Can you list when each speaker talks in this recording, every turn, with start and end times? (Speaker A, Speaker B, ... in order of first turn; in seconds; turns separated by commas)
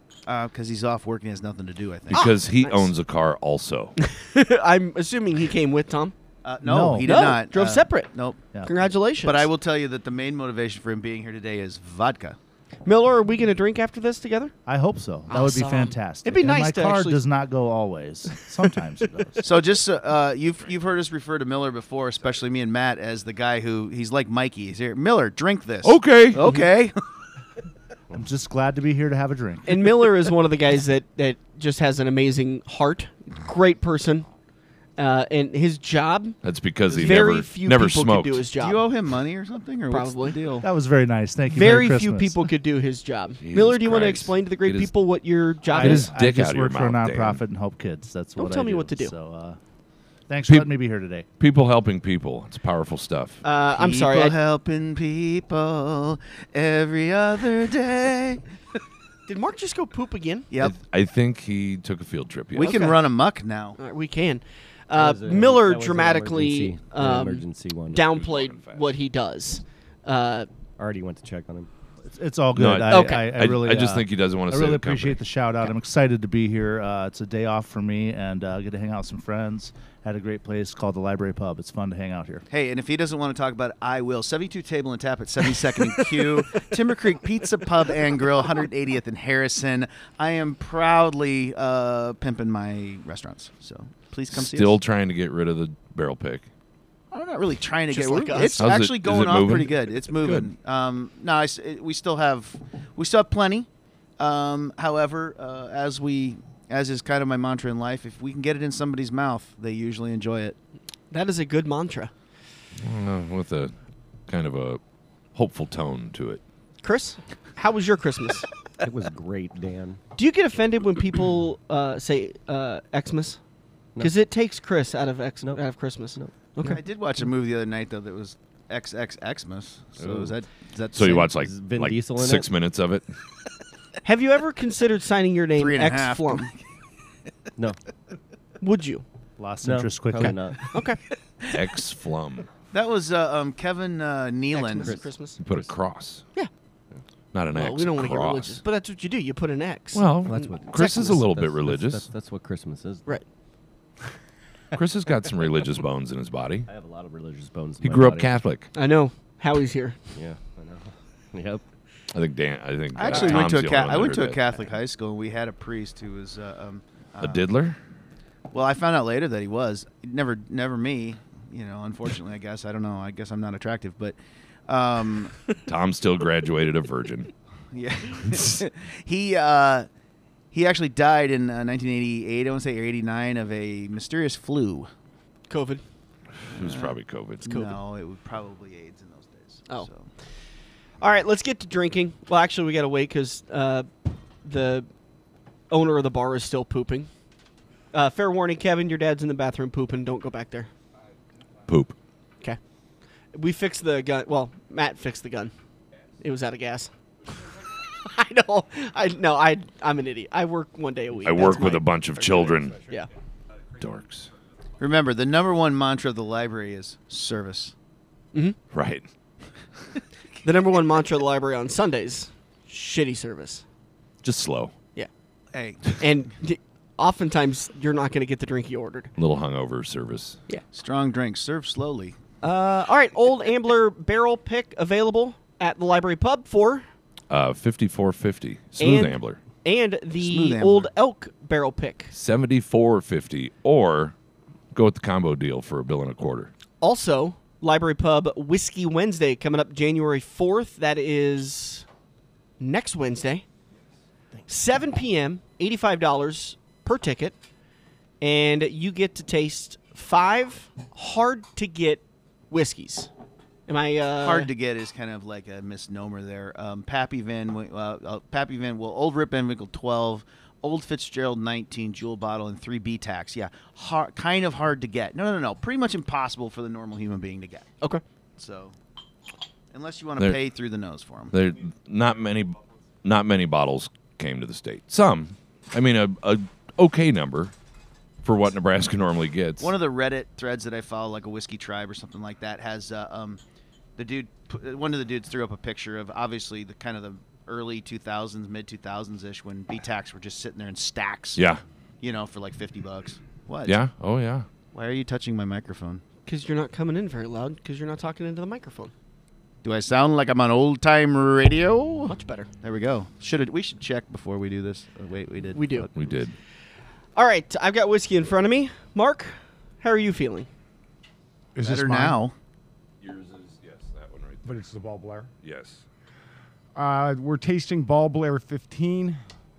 Speaker A: 0.3-2.3, Speaker B: 2.1-4.0, Speaker C: 2.1-2.9, Speaker C: 4.0-6.1, Speaker A: 6.4-8.4, Speaker D: 6.6-7.3, Speaker C: 7.0-8.1, Speaker D: 8.5-8.8, Speaker C: 8.6-9.5, Speaker A: 9.2-12.4, Speaker C: 12.8-14.5, Speaker D: 14.7-19.5, Speaker C: 15.3-17.2, Speaker A: 19.4-27.0, Speaker B: 25.8-26.5, Speaker D: 28.1-29.8, Speaker C: 29.7-34.3, Speaker C: 35.0-36.4, Speaker B: 36.4-38.5, Speaker C: 36.9-38.8, Speaker A: 38.6-40.7, Speaker C: 39.9-40.4, Speaker D: 40.6-42.4, Speaker C: 41.5-46.1, Speaker B: 43.4-44.9, Speaker D: 45.7-49.6, Speaker B: 45.7-47.4, Speaker C: 48.4-49.1, Speaker D: 50.3-51.3, Speaker B: 51.4-53.4, Speaker C: 53.4-54.4, Speaker A: 53.8-58.4, Speaker C: 59.3-60.5, Speaker A: 60.5-60.8, Speaker B: 60.6-62.9, Speaker A: 62.5-63.8, Speaker C: 62.6-63.0, Speaker C: 63.8-70.5, Speaker E: 64.9-68.0, Speaker B: 68.0-68.9, Speaker E: 70.8-71.7, Speaker D: 72.0-82.5, Speaker B: 72.5-75.2, Speaker C: 72.9-73.3, Speaker A: 82.5-94.8, Speaker B: 94.3-96.5, Speaker A: 97.1-103.7, Speaker C: 97.9-98.7, Speaker B: 98.6-100.5, Speaker A: 104.2-110.6, Speaker C: 111.1-112.1, Speaker B: 112.8-113.7, Speaker B: 114.3-114.8, Speaker B: 115.3-116.4, Speaker C: 116.8-118.5, Speaker E: 118.8-120.0, Speaker C: 120.2-123.4, Speaker C: 124.0-126.8, Speaker A: 126.6-131.3, Speaker E: 130.0-130.3, Speaker B: 130.9-133.1, Speaker E: 131.2-132.5, Speaker C: 134.0-136.5, Speaker A: 135.6-136.6, Speaker C: 138.6-139.0, Speaker D: 139.4-140.5, Speaker E: 139.6-140.7, Speaker C: 140.2-141.0, Speaker B: 141.5-142.5, Speaker A: 142.7-145.0, Speaker C: 144.5-145.4, Speaker E: 144.8-145.7, Speaker B: 145.4-146.2, Speaker B: 147.3-148.6, Speaker C: 147.5-151.1, Speaker B: 149.9-152.1, Speaker E: 150.3-153.1, Speaker B: 154.7-156.7, Speaker E: 156.7-158.4, Speaker B: 157.8-158.7, Speaker C: 158.7-160.0, Speaker E: 160.2-161.6, Speaker B: 162.1-164.4, Speaker A: 162.9-167.5, Speaker C: 163.1-163.4, Speaker B: 167.2-167.8, Speaker A: 168.5-174.2, Speaker A: 174.7-175.4, Speaker B: 175.7-177.3, Speaker A: 177.7-179.9, Speaker A: 180.5-184.9, Speaker C: 185.5-185.8, Speaker B: 186.5-187.5, Speaker A: 186.6-190.1, Speaker C: 187.4-187.7, Speaker C: 191.0-193.9, Speaker C: 194.4-194.9, Speaker C: 195.7-197.1, Speaker C: 197.9-200.7, Speaker B: 201.7-202.0, Speaker C: 203.3-205.5, Speaker C: 206.2-206.9, Speaker C: 207.7-211.9, Speaker B: 211.2-212.8, Speaker E: 212.1-213.0, Speaker B: 213.8-214.3, Speaker A: 214.8-217.7, Speaker B: 218.7-219.1, Speaker C: 220.4-223.6, Speaker B: 224.2-224.7, Speaker A: 225.5-225.9, Speaker C: 225.9-229.1, Speaker B: 229.2-230.4, Speaker A: 230.7-232.2, Speaker C: 232.4-236.9, Speaker B: 237.3-239.4, Speaker C: 238.8-242.1, Speaker A: 240.2-240.9, Speaker B: 242.1-244.1, Speaker B: 244.7-246.5, Speaker C: 246.8-251.9, Speaker C: 252.6-253.4, Speaker C: 254.5-257.4, Speaker C: 258.2-263.1, Speaker C: 263.7-264.5, Speaker A: 264.2-277.7, Speaker A: 278.4-278.8, Speaker A: 279.7-281.3, Speaker B: 281.3-287.5, Speaker B: 288.2-289.7, Speaker A: 289.6-293.4, Speaker A: 294.0-301.4, Speaker B: 301.4-301.6, Speaker A: 302.0-303.8, Speaker B: 303.6-304.5, Speaker A: 304.7-306.0, Speaker C: 306.3-308.9, Speaker A: 309.6-315.9, Speaker C: 312.1-312.5, Speaker C: 315.6-315.9, Speaker B: 315.9-316.4, Speaker C: 317.2-320.5, Speaker F: 321.6-322.2, Speaker A: 321.6-322.4, Speaker B: 323.0-324.6, Speaker F: 324.4-325.3, Speaker B: 325.4-325.8, Speaker F: 326.8-329.2